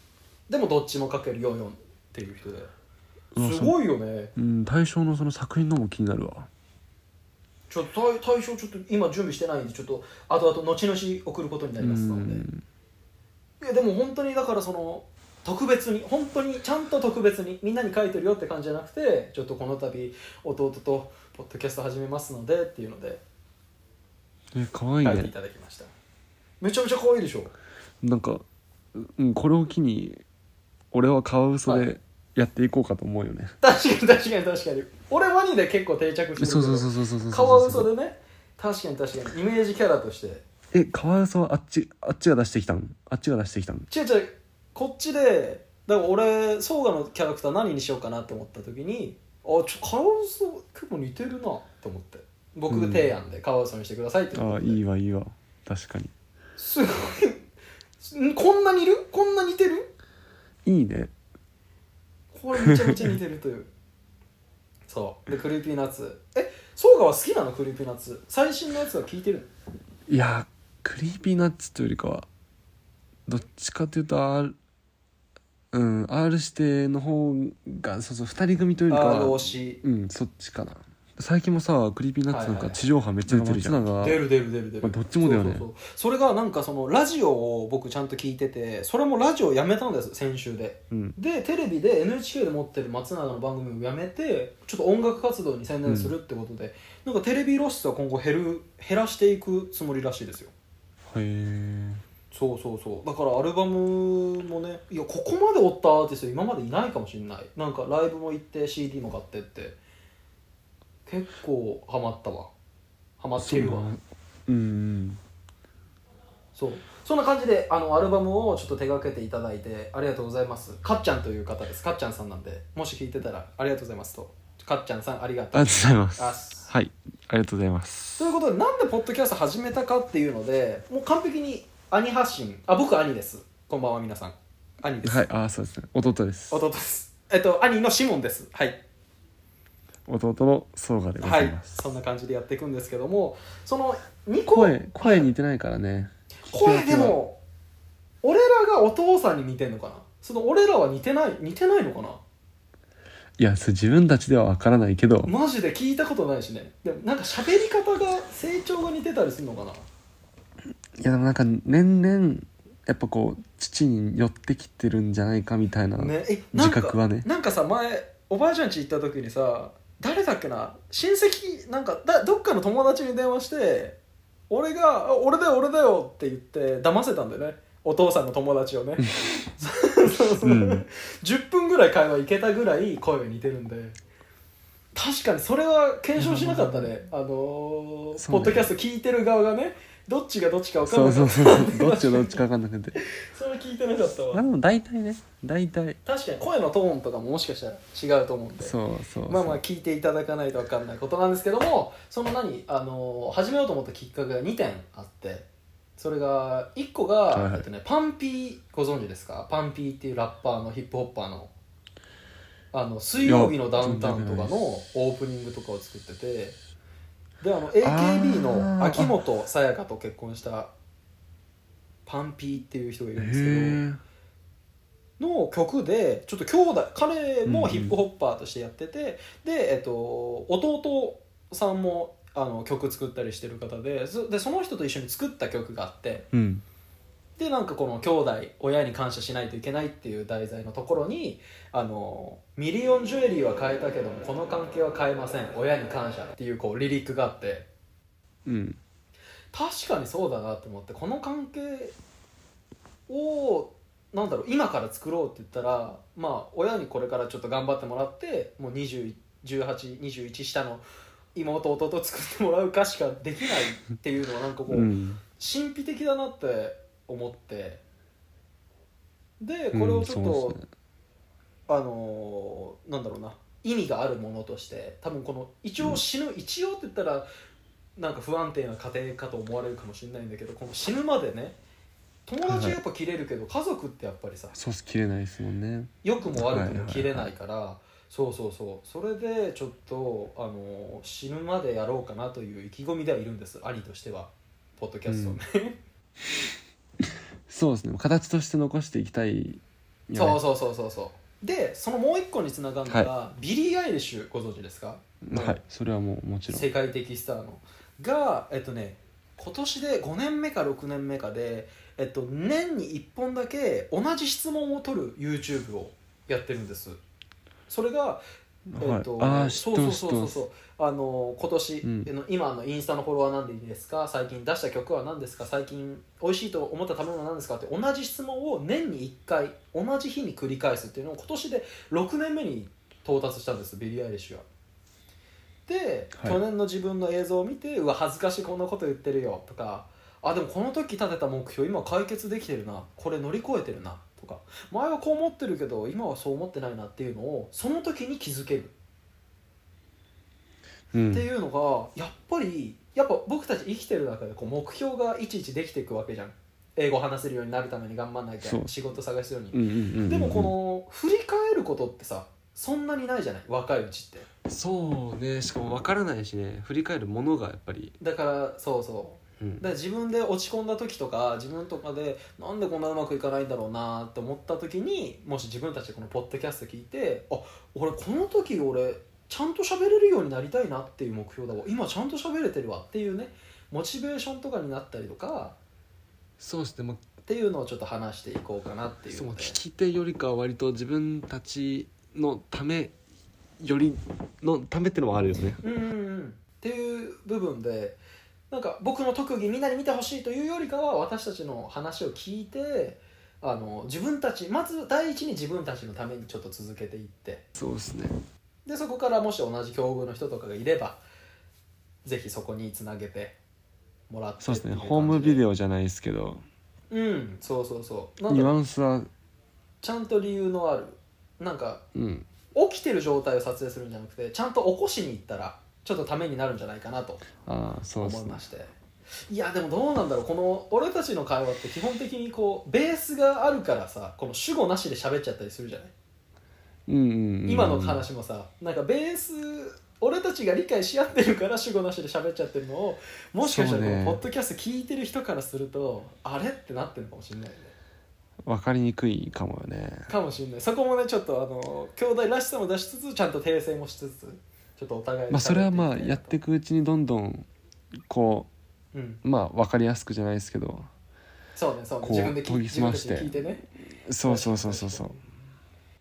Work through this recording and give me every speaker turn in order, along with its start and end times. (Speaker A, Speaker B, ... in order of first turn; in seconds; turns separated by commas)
Speaker A: 0.5-2.7, Speaker B: 3.3-3.8, Speaker A: 3.4-4.3, Speaker B: 4.4-6.5, Speaker A: 7.7-12.4, Speaker B: 11.8-12.6, Speaker A: 13.6-23.2, Speaker B: 24.5-25.3, Speaker A: 25.0-25.9, Speaker A: 26.6-27.5, Speaker B: 28.0-30.2, Speaker B: 30.9-33.5, Speaker A: 33.6-40.4, Speaker B: 36.4-37.9, Speaker B: 40.7-43.9, Speaker A: 43.9-54.8, Speaker B: 52.7-53.1, Speaker B: 54.4-56.1, Speaker A: 56.6-57.4, Speaker A: 58.0-59.9, Speaker B: 60.6-61.1, Speaker A: 62.3-63.7, Speaker B: 62.6-63.1, Speaker A: 64.9-69.5, Speaker B: 70.1-72.3, Speaker B: 73.3-74.5, Speaker B: 75.7-84.2, Speaker A: 78.9-79.8, Speaker A: 82.3-100.5, Speaker B: 84.8-85.7, Speaker B: 90.9-91.2, Speaker B: 95.9-96.1, Speaker B: 101.1-102.0, Speaker A: 102.3-109.8, Speaker A: 111.1-112.5, Speaker A: 113.2-113.9, Speaker B: 113.4-115.2, Speaker A: 116.5-126.7, Speaker B: 125.5-128.3, Speaker A: 128.2-135.3, Speaker B: 135.0-136.6, Speaker A: 136.5-138.8, Speaker B: 140.1-141.8, Speaker A: 141.2-145.3, Speaker B: 144.5-147.2, Speaker A: 146.5-147.4, Speaker A: 148.2-152.2, Speaker B: 153.4-155.3, Speaker A: 155.3-159.9, Speaker B: 161.0-167.3, Speaker A: 166.0-174.0, Speaker A: 174.5-184.0, Speaker B: 179.0-179.3, Speaker B: 180.4-180.8, Speaker A: 184.9-192.4, Speaker B: 186.2-186.9, Speaker B: 188.2-188.7, Speaker B: 190.8-193.0, Speaker A: 193.0-194.4, Speaker B: 194.3-196.0, Speaker A: 196.1-198.8, Speaker B: 198.6-199.6, Speaker A: 199.3-211.5, Speaker B: 207.3-207.7, Speaker A: 212.7-216.6, Speaker B: 213.2-214.6, Speaker A: 217.4-220.7, Speaker B: 217.8-219.2, Speaker A: 222.1-223.8, Speaker B: 223.2-224.0, Speaker A: 225.2-236.3, Speaker B: 227.4-228.0, Speaker B: 236.3-236.6, Speaker A: 237.4-247.7, Speaker B: 248.5-248.8, Speaker A: 249.5-251.9, Speaker A: 253.1-260.8, Speaker A: 261.4-267.8, Speaker B: 264.7-265.2, Speaker A: 269.4-270.6, Speaker B: 269.7-270.6, Speaker A: 271.7-277.3, Speaker A: 278.0-281.6, Speaker A: 282.3-284.5, Speaker B: 282.5-282.8, Speaker B: 284.5-287.3, Speaker A: 286.0-295.8, Speaker B: 295.1-295.4, Speaker B: 297.5-300.4, Speaker A: 300.1-305.6, Speaker B: 305.2-306.7, Speaker A: 306.5-317.0, Speaker A: 317.7-318.2, Speaker B: 318.7-320.4, Speaker A: 318.8-334.4, Speaker B: 321.8-322.1, Speaker A: 335.7-348.7, Speaker B: 350.9-351.2, Speaker A: 351.1-364.3, Speaker B: 358.4-358.7, Speaker B: 359.5-360.5, Speaker B: 364.5-368.0, Speaker A: 368.0-385.6, Speaker B: 386.4-387.0, Speaker A: 387.2-389.6, Speaker B: 389.1-392.9, Speaker B: 393.6-395.6, Speaker A: 395.6-398.0, Speaker A: 398.5-407.4, Speaker B: 407.6-408.2, Speaker A: 408.6-411.0, Speaker A: 412.1-413.4, Speaker A: 414.1-415.4, Speaker B: 414.4-416.4, Speaker A: 416.9-418.5, Speaker B: 418.3-419.1, Speaker A: 419.8-421.8, Speaker B: 421.9-422.3, Speaker A: 422.6-427.2, Speaker B: 427.4-428.4, Speaker A: 428.0-428.7, Speaker A: 429.3-435.9, Speaker B: 436.9-438.0, Speaker A: 437.5-447.7, Speaker B: 443.4-444.2, Speaker B: 448.5-450.1, Speaker A: 450.1-456.4, Speaker B: 455.3-457.5, Speaker B: 458.1-458.5, Speaker A: 458.9-459.2, Speaker B: 459.2-460.9, Speaker A: 461.6-463.6, Speaker B: 462.0-463.3, Speaker B: 464.1-465.2, Speaker A: 464.2-465.1